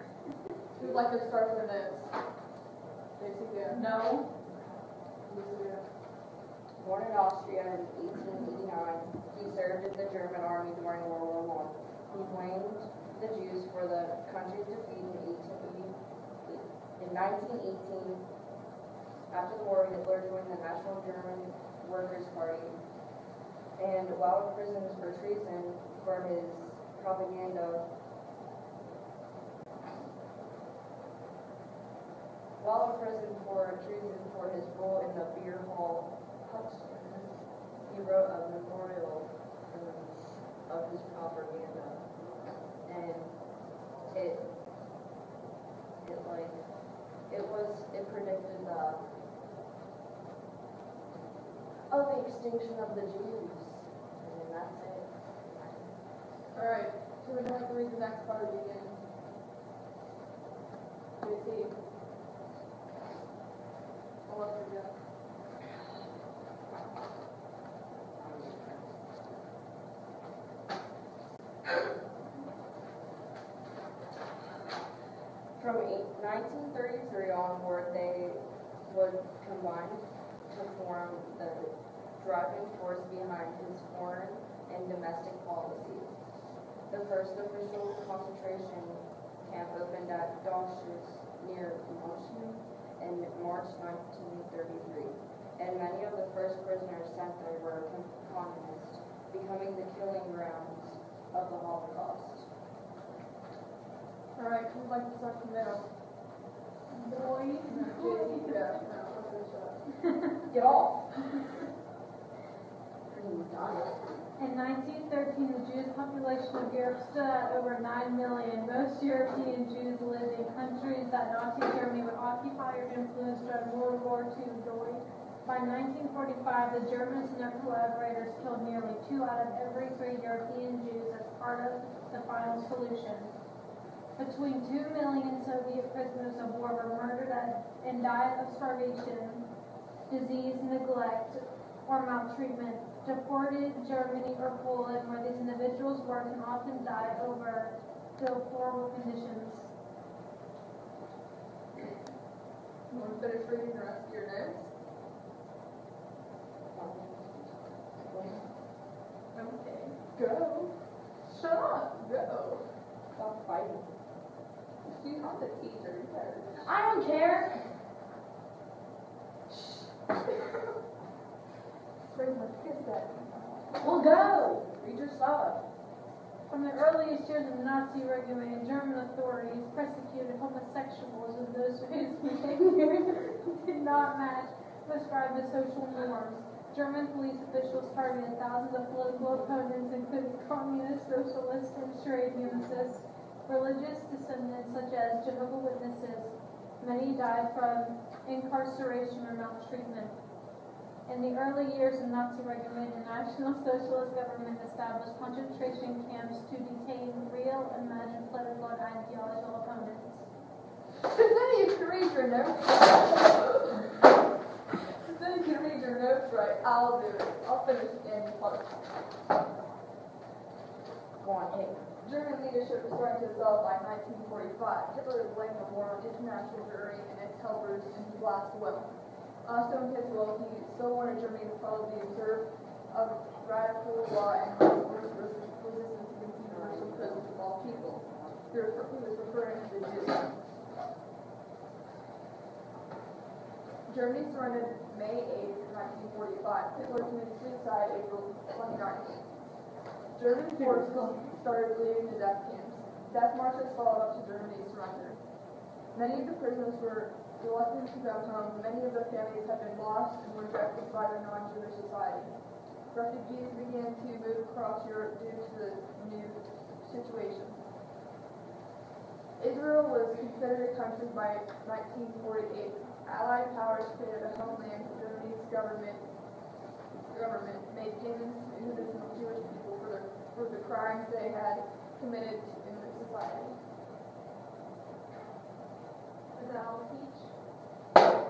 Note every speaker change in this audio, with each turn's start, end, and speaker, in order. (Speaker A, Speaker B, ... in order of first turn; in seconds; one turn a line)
Speaker A: 0.7-2.1
Speaker A: 3.1-3.8
Speaker B: 3.7-4.2
Speaker A: 5.2-5.9
Speaker C: 6.8-18.3
Speaker C: 19.3-22.8
Speaker C: 23.7-27.9
Speaker C: 32.6-44.5
Speaker C: 46.0-49.0
Speaker C: 51.9-56.1
Speaker A: 56.5-59.1
Speaker A: 61.2-61.8
Speaker A: 64.2-65.0
Speaker C: 66.7-66.9
Speaker C: 68.1-69.1
Speaker C: 75.5-86.3
Speaker C: 86.8-102.5
Speaker A: 104.3-105.9
Speaker B: 106.9-108.8
Speaker A: 107.6-109.9
Speaker C: 110.5-111.1
Speaker C: 113.1-114.2
Speaker B: 114.4-133.3
Speaker B: 134.2-139.5
Speaker B: 140.1-149.7
Speaker A: 152.9-154.7
Speaker C: 156.7-158.5
Speaker A: 159.3-160.0
Speaker C: 160.1-160.7
Speaker A: 161.2-162.7
Speaker C: 163.1-163.9
Speaker A: 164.8-166.7
Speaker C: 166.6-167.5
Speaker A: 172.0-174.0
Speaker C: 173.8-175.6
Speaker B: 176.5-200.2
Speaker B: 201.1-210.3
Speaker A: 210.9-214.1
Speaker A: 215.0-218.8
Speaker C: 221.2-221.9
Speaker A: 222.0-240.4
Speaker C: 236.5-238.5
Speaker A: 243.8-249.5
Speaker A: 250.1-267.6
Speaker A: 269.4-276.3
Speaker A: 277.1-283.6
Speaker A: 286.4-287.0